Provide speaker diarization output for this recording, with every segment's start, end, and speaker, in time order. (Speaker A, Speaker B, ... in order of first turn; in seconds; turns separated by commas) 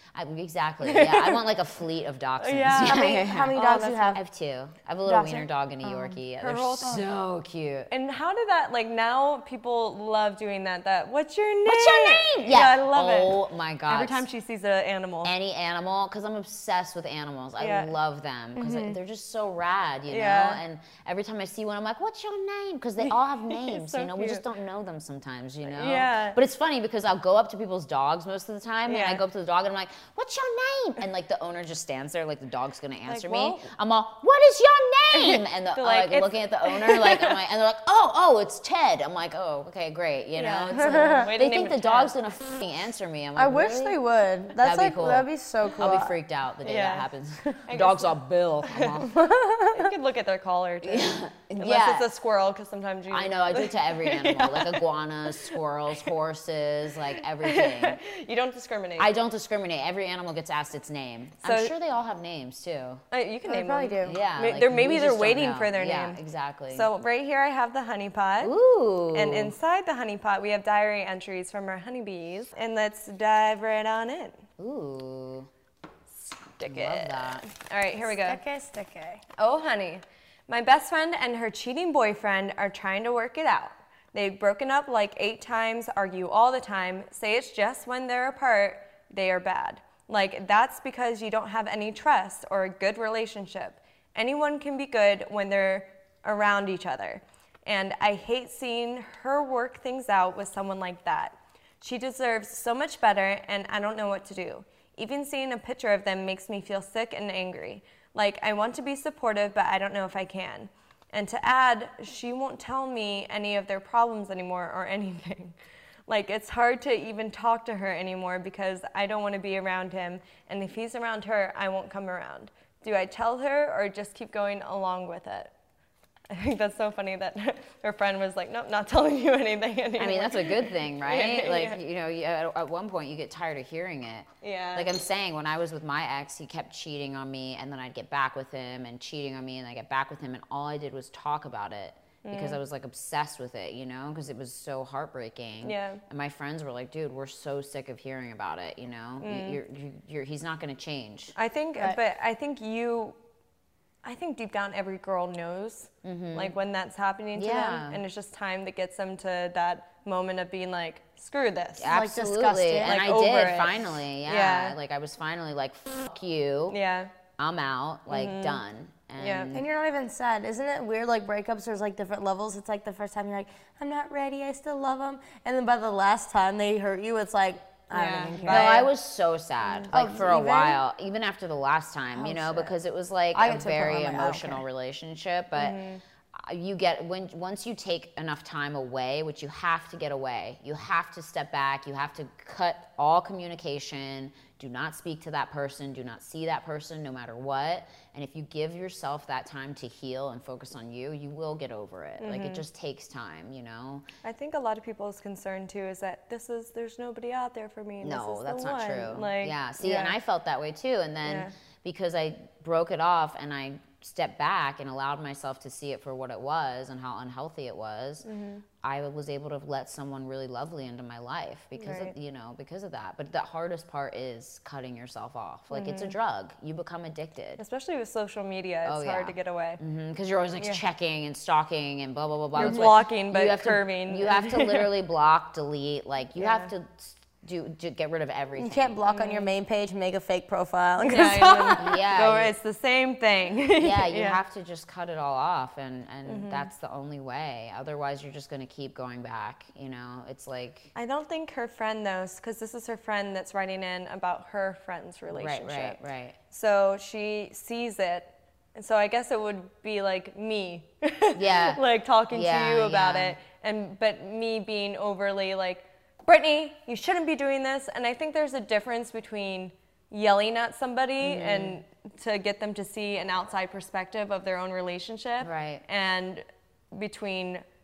Speaker A: 0.1-3.6, Speaker B: 0.8-1.4, Speaker B: 2.4-4.2, Speaker C: 2.7-4.2, Speaker A: 4.1-7.9, Speaker C: 5.1-6.2, Speaker B: 6.4-7.0, Speaker B: 7.9-15.3, Speaker A: 11.7-14.2, Speaker A: 15.2-44.0, Speaker B: 17.6-17.9, Speaker C: 18.6-19.0, Speaker B: 20.1-20.6, Speaker B: 23.0-24.4, Speaker B: 25.7-26.4, Speaker B: 28.9-29.2, Speaker B: 33.1-33.7, Speaker B: 35.1-37.4, Speaker B: 40.4-42.1, Speaker C: 40.8-41.3, Speaker C: 43.4-46.2, Speaker A: 44.6-49.2, Speaker B: 46.6-47.1, Speaker B: 47.6-49.0, Speaker C: 49.0-49.9, Speaker B: 49.7-55.6, Speaker A: 50.8-52.1, Speaker A: 53.1-58.0, Speaker B: 57.2-59.1, Speaker A: 59.0-63.0, Speaker B: 61.4-61.7, Speaker B: 63.1-66.2, Speaker C: 63.5-64.2, Speaker A: 64.0-66.9, Speaker B: 66.7-68.5, Speaker A: 68.4-69.5, Speaker B: 69.1-74.4, Speaker A: 74.6-75.5, Speaker B: 76.6-78.4, Speaker A: 76.6-77.5, Speaker C: 78.1-79.2, Speaker B: 79.4-115.5, Speaker B: 116.1-125.5, Speaker B: 126.3-131.8, Speaker A: 130.0-151.3, Speaker B: 134.4-134.9, Speaker B: 142.2-142.6, Speaker B: 145.6-146.0, Speaker B: 149.2-149.6, Speaker B: 151.4-153.2, Speaker B: 154.0-161.9, Speaker A: 156.0-156.5, Speaker A: 157.3-158.0, Speaker A: 161.8-166.8, Speaker C: 161.9-163.0, Speaker B: 162.8-164.8, Speaker B: 166.7-167.1, Speaker A: 167.4-169.7, Speaker B: 168.1-168.6, Speaker B: 169.2-169.5, Speaker C: 169.5-178.9, Speaker B: 177.9-178.9, Speaker A: 178.5-185.8, Speaker C: 179.9-180.8, Speaker C: 182.2-182.7, Speaker C: 183.3-184.6, Speaker B: 185.6-186.0, Speaker A: 186.3-204.1, Speaker B: 202.2-202.7, Speaker B: 204.2-210.2, Speaker A: 208.0-218.3, Speaker B: 211.2-211.5, Speaker B: 218.2-218.7, Speaker A: 218.8-227.6, Speaker B: 221.8-222.1, Speaker B: 225.7-226.2, Speaker B: 227.6-229.8, Speaker A: 228.8-239.0, Speaker B: 232.6-234.9, Speaker C: 232.6-232.9, Speaker B: 236.4-236.7, Speaker C: 238.6-241.8, Speaker B: 239.1-239.5, Speaker B: 241.0-244.4, Speaker A: 241.8-242.6, Speaker A: 243.8-250.9, Speaker B: 246.3-246.7, Speaker B: 250.9-256.0, Speaker A: 255.3-256.4, Speaker B: 256.5-277.6, Speaker A: 261.3-263.4, Speaker A: 271.2-271.8, Speaker A: 275.4-275.8